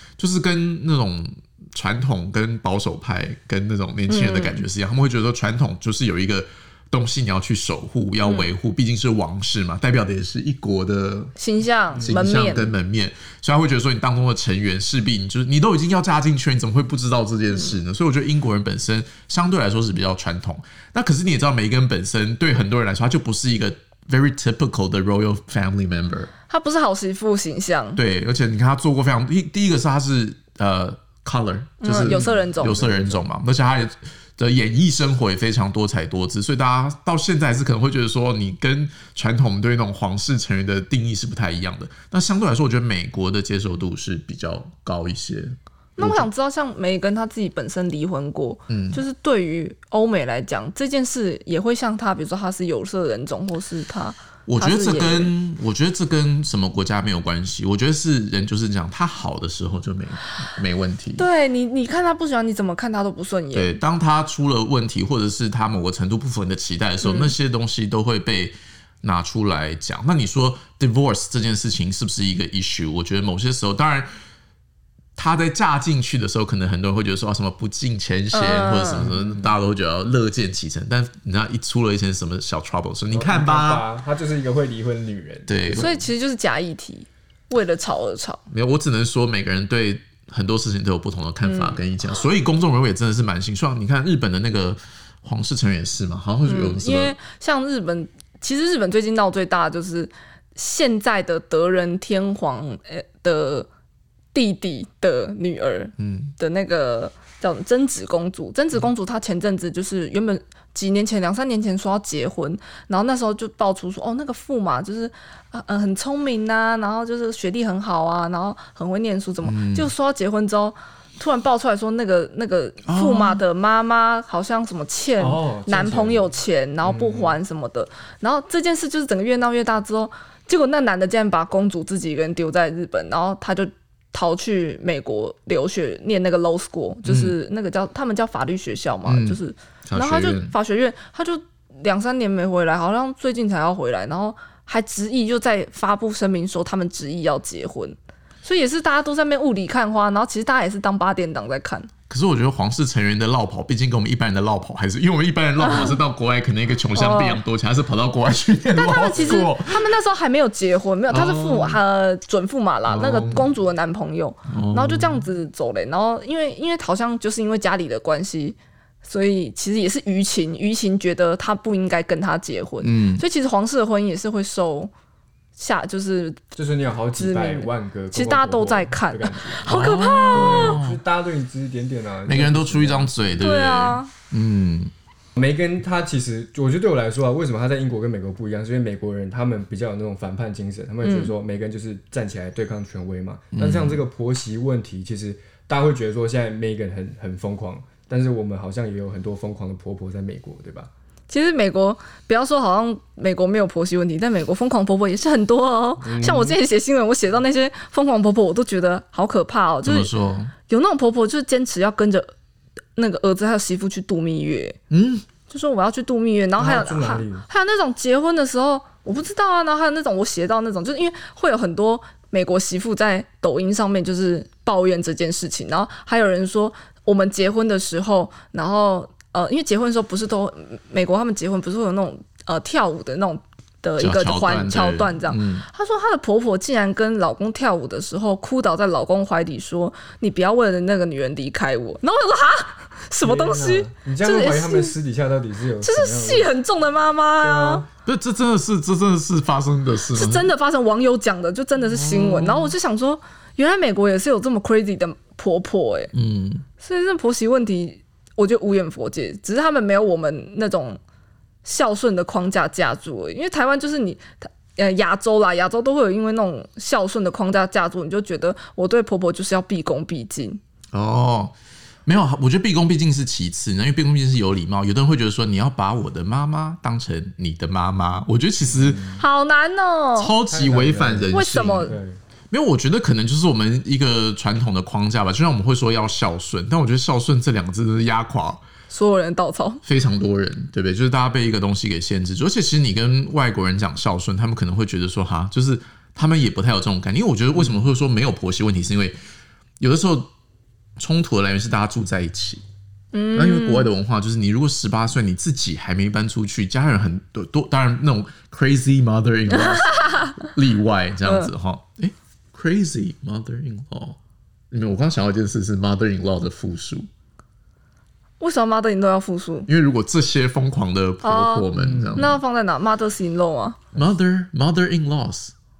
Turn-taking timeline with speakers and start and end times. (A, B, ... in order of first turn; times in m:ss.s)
0:00.2-0:11.3 A
0:04.1-0:04.6 B
0:08.2-0:08.5 B
0:11.4-0:12.7 B
0:12.0-0:26.3 A
0:26.5-0:28.0 B
0:27.9-0:46.3 A
0:31.8-0:32.8 B
0:32.0-0:33.2 C
0:46.0-0:55.3 B
0:48.7-0:49.0 A
0:54.5-1:01.2 A
1:01.2-1:03.8 B
1:03.5-1:14.1 A
1:07.0-1:07.3 B
1:15.2-1:23.8 A
1:18.3-1:19.1 B
1:19.0-1:19.5 C
1:23.1-1:26.1 C
1:25.5-1:25.9 A
1:25.7-1:28.4 B
1:28.5-1:37.2 A
1:31.4-1:31.8 B
1:36.4-1:43.7 B
1:44.3-2:31.9 B
1:46.0-1:46.3 A
1:59.4-1:59.9 A
2:02.8-2:03.4 A
2:05.2-2:06.3 C
2:06.8-2:07.4 C
2:17.0-2:17.3 A
2:19.0-2:20.5 A
2:32.1-2:39.9 A
2:35.6-2:36.0 B
2:36.9-2:37.4 B
2:38.7-2:54.9 B
2:39.1-2:39.4 C
2:41.1-2:41.8 A
2:42.9-2:43.4 A
2:44.5-2:45.2 A
2:52.8-2:53.2 A
2:55.6-2:56.4 B
2:56.5-3:03.5 C
2:57.2-3:00.8 B
2:59.6-3:01.0 A
3:02.2-3:04.9 A
3:03.4-3:04.1 B
3:05.4-3:20.9 C
3:11.0-3:11.3 B
3:13.5-3:14.0 A
3:21.3-3:30.1 B
3:26.0-3:26.6 C
3:29.8-3:30.5 A
3:30.7-3:32.3 B
3:33.0-3:34.8 B
3:34.9-3:35.2 A
3:35.5-4:04.9 B
3:36.6-3:37.5 C
3:54.0-3:55.6 A
4:03.2-4:06.5 C
4:05.8-4:07.8 B
4:07.4-4:07.9 C
4:08.0-4:10.5 A
4:10.1-4:16.1 B
4:11.8-4:12.7 A
4:16.1-4:16.6 A
4:16.8-4:21.0 B
4:21.6-4:30.6 B
4:30.9-4:39.0 A
4:38.6-4:39.2 C
4:39.2-4:40.3 B
4:40.2-4:41.9 A
4:40.5-4:42.2 C
4:41.3-4:41.9 B
4:42.5-4:48.6 A
4:48.9-4:49.8 B
4:49.8-4:59.2 A
4:59.8-5:00.3 A
5:01.0-5:02.6 A
5:03.1-5:03.9 B
5:03.3-5:14.2 A
5:09.5-5:10.4 B
5:11.2-5:11.5 B
5:14.7-5:17.1 A
5:18.4-5:19.7 B
5:19.7-5:22.4 A
5:21.2-5:23.8 B
5:21.7-5:22.3 C
5:23.9-5:25.5 A